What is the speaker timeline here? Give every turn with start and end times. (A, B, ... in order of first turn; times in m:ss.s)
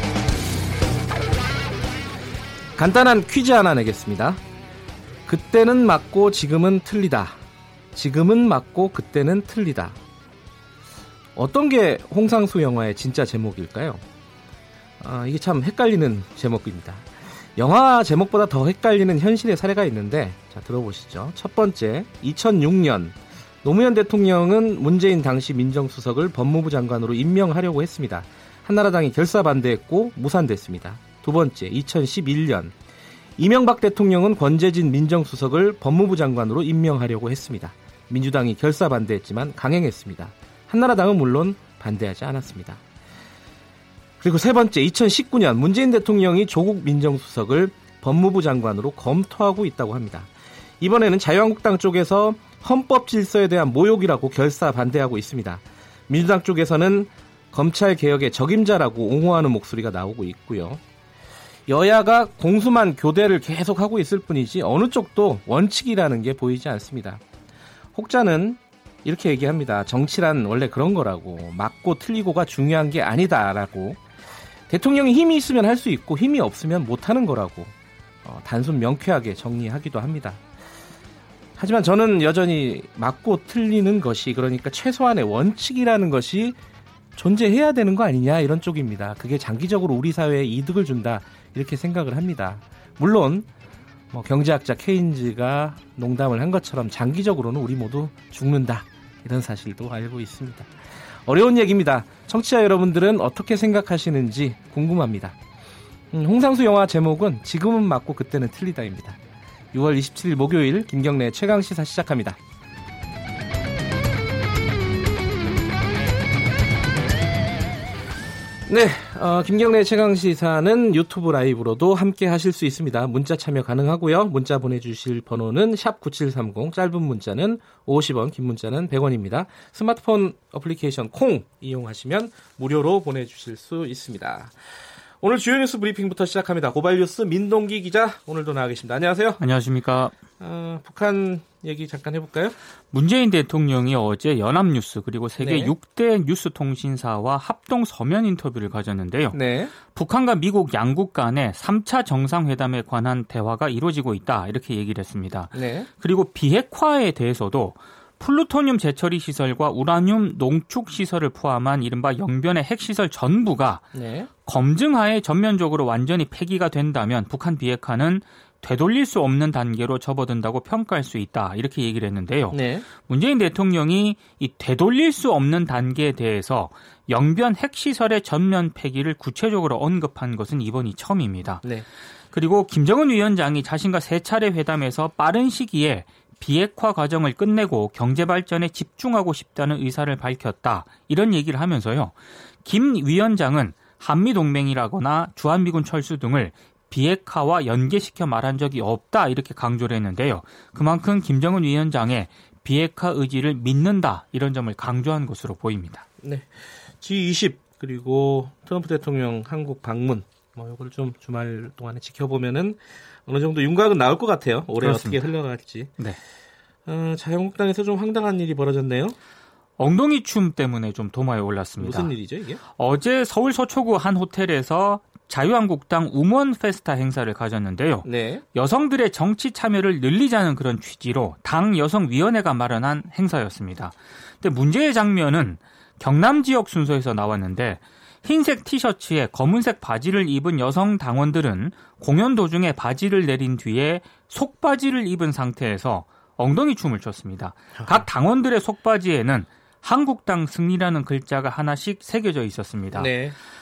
0:02.8-0:04.4 A
0:05.3-0:07.4 A
0:07.9-0:10.0 A
0:11.4-0:14.0 A
0:15.0-0:32.7 A
0:33.4-0:42.8 A
0:44.2-1:00.8 A
1:01.7-1:07.2 A
1:08.0-1:14.0 A
1:14.7-1:20.4 A
1:21.6-1:26.6 A
1:27.2-1:33.5 A
1:34.1-1:40.7 A
1:41.3-1:45.4 A
1:46.1-1:49.2 A
1:49.7-1:52.4 A
1:58.7-2:14.6 A
2:15.2-2:19.4 A
2:19.4-2:20.2 B
2:20.4-2:22.6 A
2:22.9-2:43.9 B
2:25.4-2:25.7 A
2:29.3-2:29.7 A
2:35.5-2:35.9 A
2:43.9-2:44.3 A
2:44.4-3:01.7 B
2:52.5-2:52.9 A
3:02.3-3:26.0 B
3:26.2-3:36.0 A
3:34.8-3:35.3 B
3:36.9-3:39.2 A
3:39.8-3:42.1 B
3:41.8-3:42.6 A
3:42.6-4:13.1 B
3:48.0-3:48.4 A
4:07.8-4:08.0 A
4:12.9-4:13.4 A